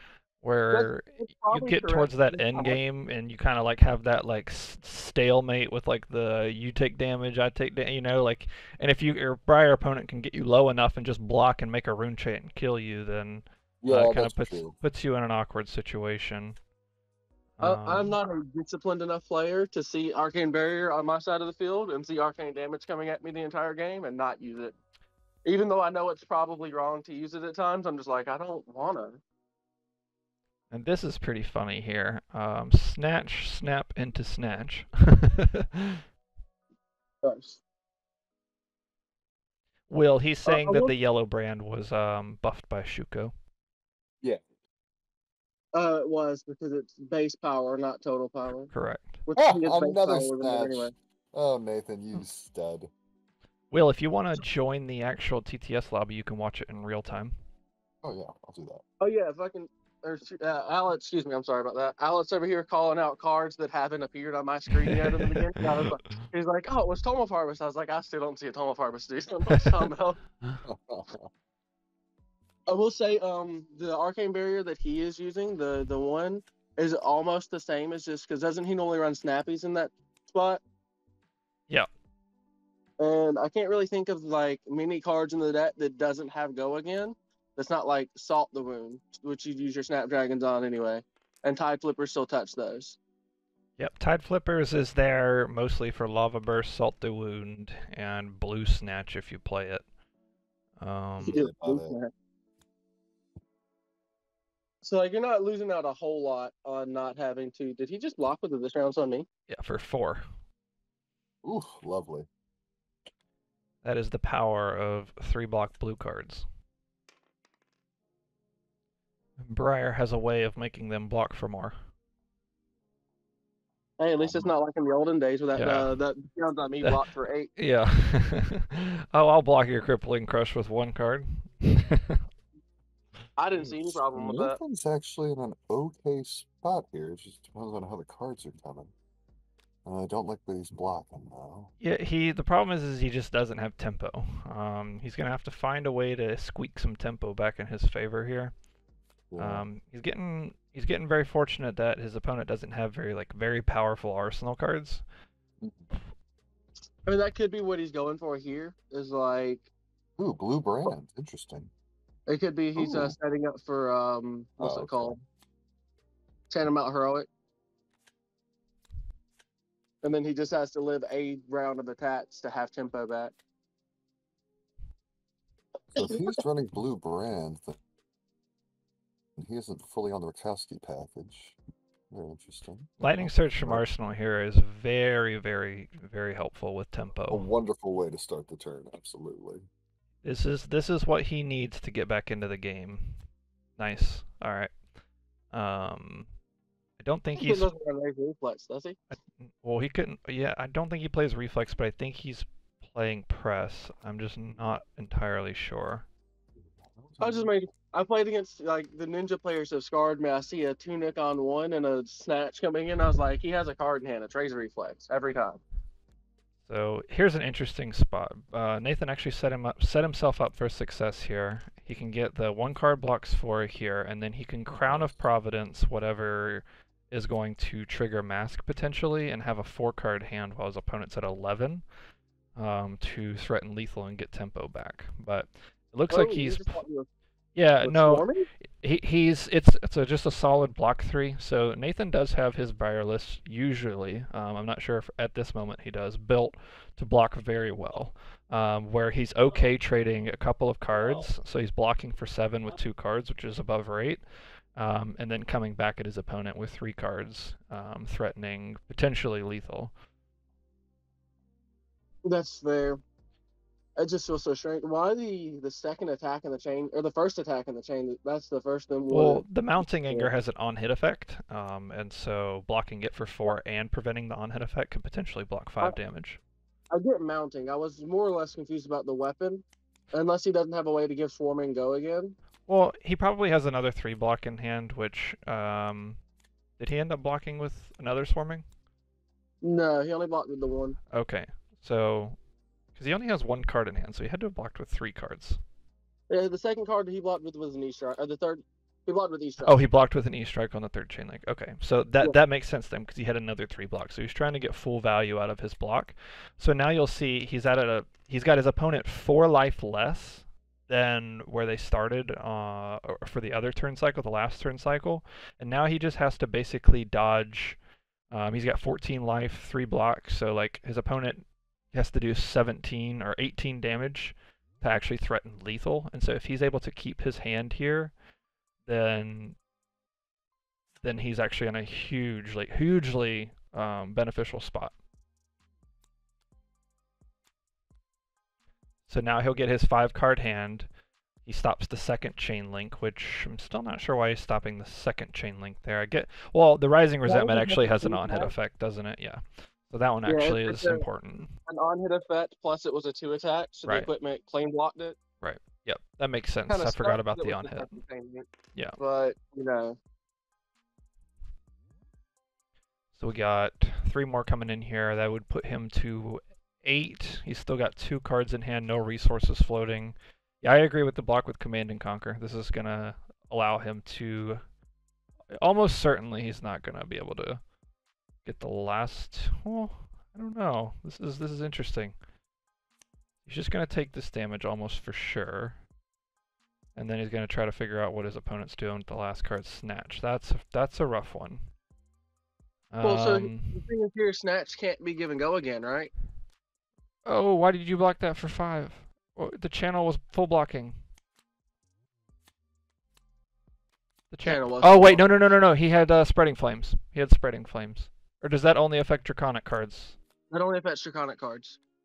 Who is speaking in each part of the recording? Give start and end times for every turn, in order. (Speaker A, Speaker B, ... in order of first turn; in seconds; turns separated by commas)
Speaker A: 0.4-16.6, Speaker B: 0.7-2.8, Speaker C: 13.8-14.8, Speaker A: 17.6-18.1, Speaker B: 17.6-24.7, Speaker B: 25.4-29.2, Speaker A: 30.7-36.0, Speaker B: 37.2-37.6, Speaker A: 39.9-43.3, Speaker B: 40.4-40.9, Speaker B: 45.7-48.7, Speaker A: 48.7-49.2, Speaker B: 49.2-50.9, Speaker C: 49.4-52.9, Speaker A: 53.7-57.3, Speaker C: 58.0-58.8, Speaker B: 59.0-70.2, Speaker A: 64.8-65.4, Speaker C: 70.6-71.3, Speaker B: 72.7-80.6, Speaker B: 83.0-93.0, Speaker A: 93.8-99.8, Speaker A: 100.8-101.4, Speaker C: 101.2-102.0, Speaker B: 101.3-102.1, Speaker B: 104.8-109.2, Speaker A: 109.5-110.2, Speaker C: 111.4-112.3, Speaker A: 113.8-116.5, Speaker A: 119.4-121.8, Speaker B: 124.0-127.5, Speaker C: 124.2-124.5, Speaker A: 125.5-126.0, Speaker A: 127.5-132.2, Speaker B: 133.4-134.6, Speaker C: 133.6-138.9, Speaker C: 139.8-141.7, Speaker A: 141.8-148.5, Speaker C: 149.3-149.7, Speaker A: 149.4-155.0, Speaker C: 155.6-155.9, Speaker B: 157.1-159.7, Speaker C: 160.2-161.7, Speaker B: 162.3-165.2, Speaker C: 162.8-163.2, Speaker C: 164.6-165.2, Speaker B: 166.5-167.3, Speaker B: 170.0-173.3, Speaker C: 175.9-177.8, Speaker C: 179.4-181.6, Speaker C: 182.1-183.9, Speaker A: 183.0-187.4, Speaker C: 187.3-189.7, Speaker A: 190.2-193.2, Speaker A: 193.8-194.7, Speaker A: 195.5-196.3, Speaker A: 197.0-197.7, Speaker B: 197.4-199.0, Speaker A: 199.1-206.0, Speaker C: 206.8-207.5, Speaker B: 207.2-215.6, Speaker A: 216.7-231.8, Speaker C: 224.8-225.2, Speaker A: 232.6-236.8, Speaker B: 236.1-237.1, Speaker A: 237.6-254.2, Speaker B: 237.8-238.5, Speaker A: 254.7-259.9, Speaker B: 262.2-263.0, Speaker B: 264.0-270.3, Speaker A: 269.1-276.4, Speaker B: 276.9-282.4, Speaker A: 282.7-286.2, Speaker A: 286.8-288.6, Speaker B: 289.6-291.0, Speaker A: 291.1-292.4, Speaker A: 292.9-295.6, Speaker B: 296.3-299.8, Speaker A: 299.6-317.8, Speaker A: 318.3-328.1, Speaker A: 328.9-329.6, Speaker A: 331.0-334.9, Speaker A: 339.1-340.9, Speaker A: 341.4-351.5, Speaker B: 347.2-348.5, Speaker B: 350.2-351.0, Speaker B: 351.6-355.2, Speaker A: 355.4-358.0, Speaker B: 356.7-358.4, Speaker B: 359.0-360.0, Speaker A: 363.1-374.6, Speaker A: 375.5-377.6, Speaker A: 378.4-382.1, Speaker A: 383.4-385.8, Speaker A: 386.9-391.7, Speaker A: 392.9-393.9, Speaker B: 393.0-396.1, Speaker A: 397.2-401.0, Speaker A: 404.3-410.2, Speaker B: 404.4-405.2, Speaker B: 410.5-411.8